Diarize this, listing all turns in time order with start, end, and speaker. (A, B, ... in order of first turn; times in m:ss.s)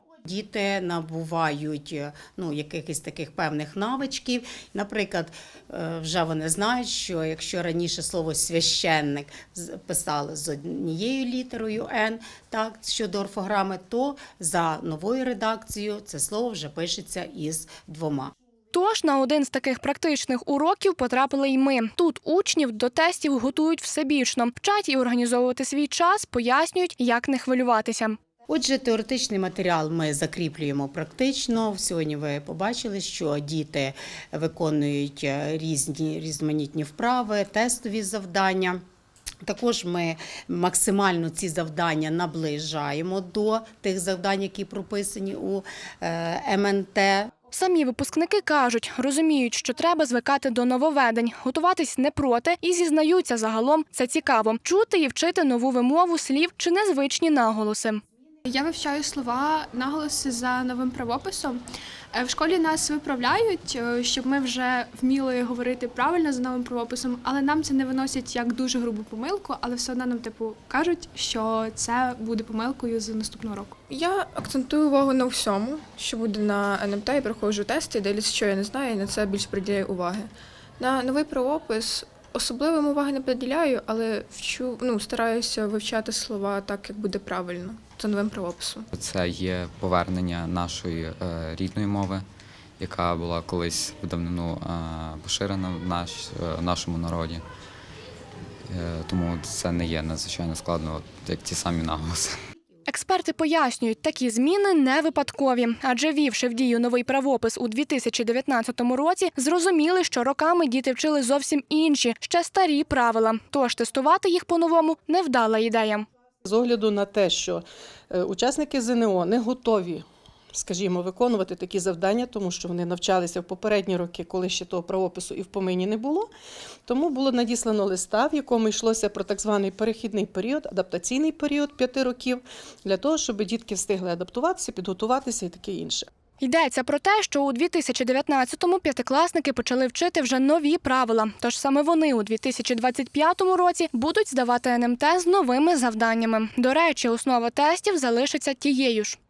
0:00.2-0:18.3 A
0:18.7-0:28.2 B
0:28.5-0:38.8 A
0:39.4-0:47.3 A
0:47.5-0:58.0 B
0:58.5-1:13.7 C
1:13.9-1:28.9 D
1:28.9-1:32.2 E
1:32.8-1:37.4 E
1:38.7-1:42.3 E
1:42.9-1:56.1 B
1:56.4-2:06.3 F
2:06.9-2:16.1 F
2:16.4-2:29.2 B